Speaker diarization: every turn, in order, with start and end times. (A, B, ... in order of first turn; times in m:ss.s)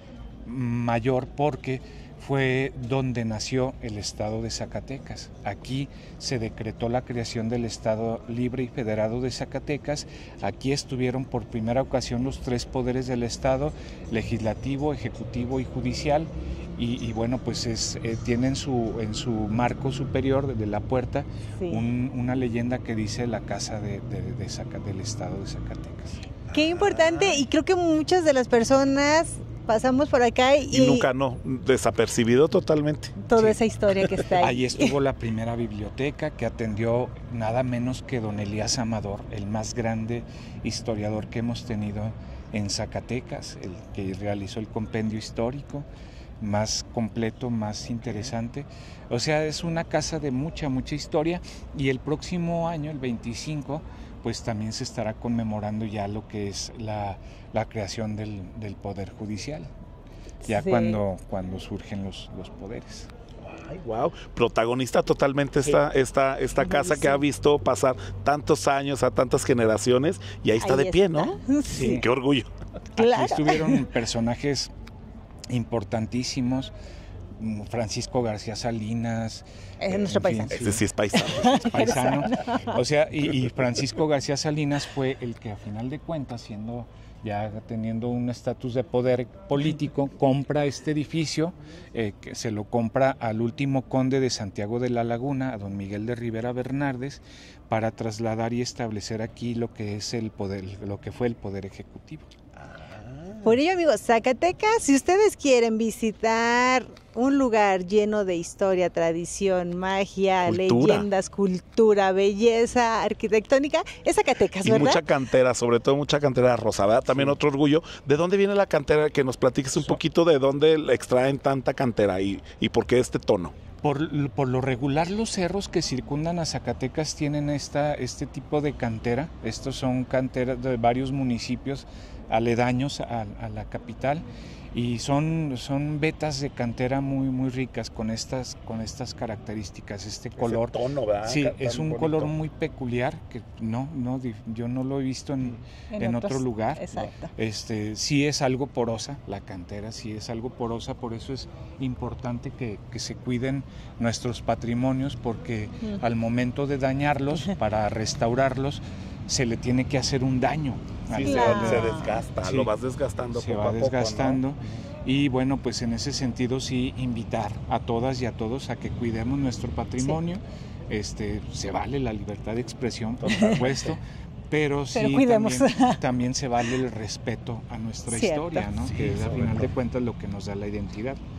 0:00.4-0:26.2 A
0:21.6-0:21.8 B
0:26.5-0:27.4 C
0:26.5-0:31.0 B
0:30.7-0:33.4 C
0:33.2-0:34.9 B
0:34.4-0:45.9 A
0:46.4-0:59.7 A
1:00.4-1:01.0 B
1:00.5-1:03.1 A
1:03.4-1:12.5 C
1:06.6-1:07.2 B
1:10.6-1:12.0 B
1:11.7-1:12.0 A
1:13.0-1:13.8 B
1:13.0-1:14.7 A
1:15.5-1:16.7 A
1:17.3-1:20.8 A
1:19.8-1:22.8 B
1:20.5-1:22.0 C
1:21.4-1:42.3 A
1:42.6-1:43.5 C
1:43.4-1:55.0 B
1:50.4-1:51.1 C
1:54.6-2:03.5 C
2:03.8-2:42.7 A
2:20.4-2:22.3 C
2:25.9-2:27.3 B
2:41.1-2:44.8 C
2:41.2-2:42.2 B
2:43.3-3:01.2 A
2:53.2-2:54.0 C
2:53.3-2:53.5 B
2:54.9-2:56.0 B
2:58.1-2:58.6 B
2:58.7-2:59.7 C